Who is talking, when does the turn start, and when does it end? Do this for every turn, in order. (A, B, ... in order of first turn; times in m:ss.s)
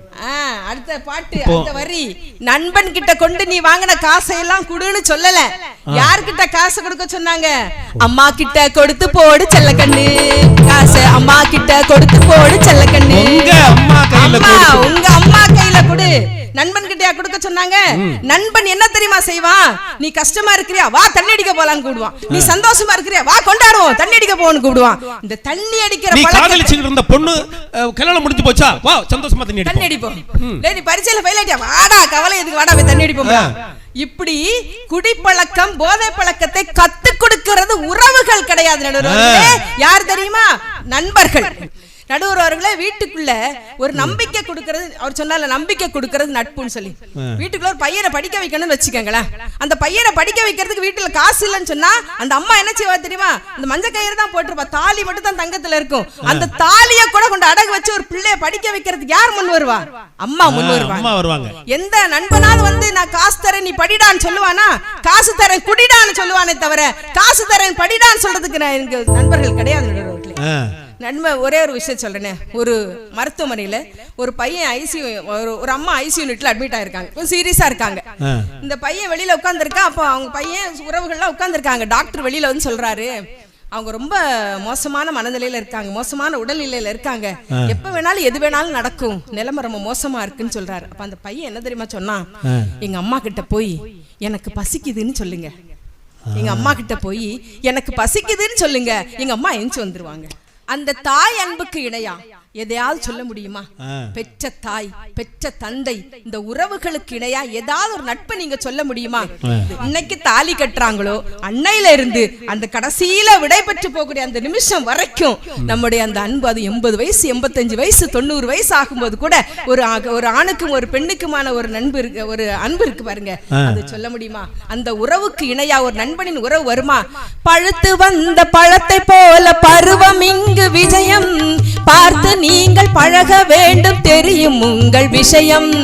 0:00.2-0:26.8 A
0:01.3-0:01.7 B
0:13.1-0:14.9 B
0:17.9-0:18.2 B
0:22.3-0:22.6 B
0:26.1-0:30.6 B
0:29.6-1:01.1 A
0:33.2-0:33.5 B
0:39.0-0:39.6 B
0:43.9-0:44.2 B
0:56.2-0:56.5 B
1:00.4-1:01.6 B
1:01.7-1:10.4 A
1:10.4-1:10.7 B
1:11.0-1:18.1 A
1:18.2-1:18.5 B
1:18.6-1:23.2 A
1:23.7-1:32.3 A
1:32.5-1:32.7 B
1:32.8-1:35.5 A
1:36.3-1:36.8 B
1:36.4-2:15.7 A
1:43.8-1:44.1 B
1:49.5-1:49.7 B
2:03.5-2:03.8 B